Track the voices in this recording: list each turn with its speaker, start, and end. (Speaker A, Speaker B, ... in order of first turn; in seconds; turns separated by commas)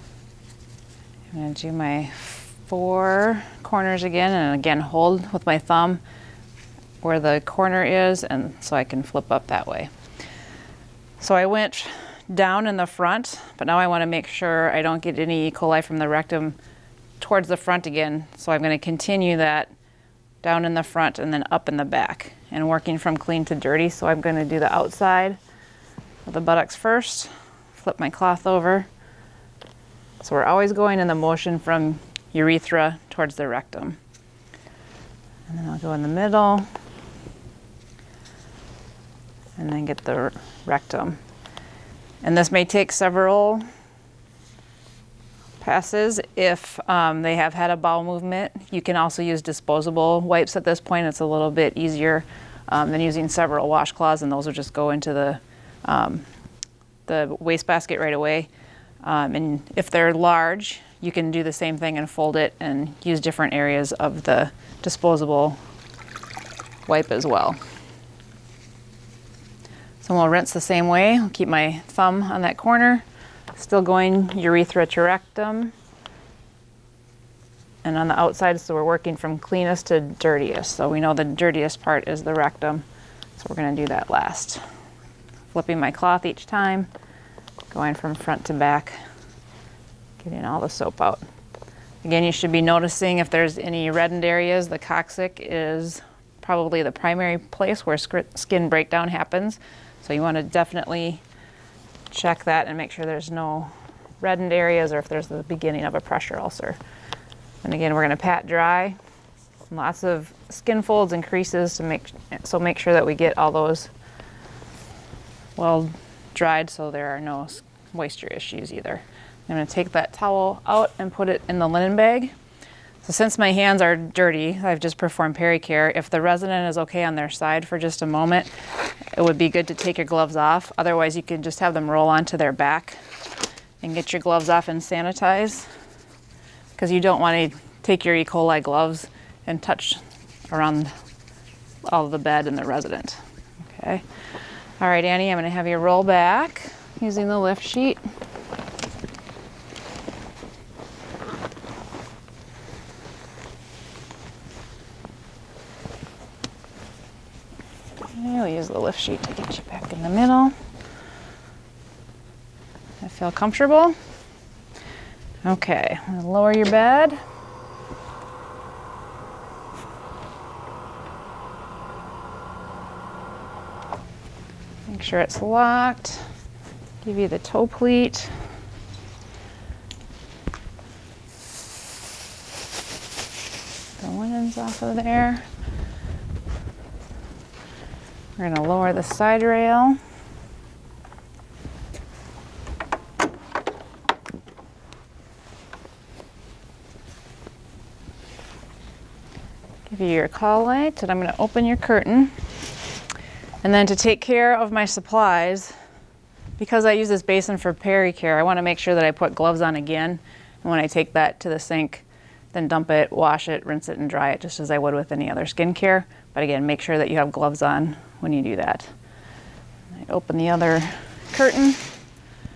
Speaker A: 1.3-6.0, Speaker A: 7.0-9.9, Speaker A: 11.2-16.6, Speaker A: 17.2-19.7, Speaker A: 20.4-25.4, Speaker A: 26.3-28.9, Speaker A: 30.2-34.0, Speaker A: 35.5-36.7, Speaker A: 39.6-41.2, Speaker A: 42.2-43.6, Speaker A: 45.6-56.3, Speaker A: 57.1-58.5, Speaker A: 59.0-65.6, Speaker A: 66.9-67.6, Speaker A: 70.0-75.7, Speaker A: 77.8-82.8, Speaker A: 83.4-84.6, Speaker A: 85.5-86.9, Speaker A: 87.7-89.0, Speaker A: 90.2-91.2, Speaker A: 92.0-101.2, Speaker A: 102.1-106.8, Speaker A: 107.6-109.0, Speaker A: 109.7-113.9, Speaker A: 115.6-122.3, Speaker A: 123.0-128.5, Speaker A: 129.1-133.0, Speaker A: 133.8-135.7, Speaker A: 136.8-140.9, Speaker A: 141.8-144.0, Speaker A: 144.8-148.0, Speaker A: 158.1-160.5, Speaker A: 163.0-164.0, Speaker A: 165.4-167.2, Speaker A: 174.9-176.2, Speaker A: 177.0-178.3, Speaker A: 184.0-185.4, Speaker A: 188.4-190.0, Speaker A: 199.9-202.3, Speaker A: 203.6-205.7, Speaker A: 206.6-218.9, Speaker A: 219.9-221.9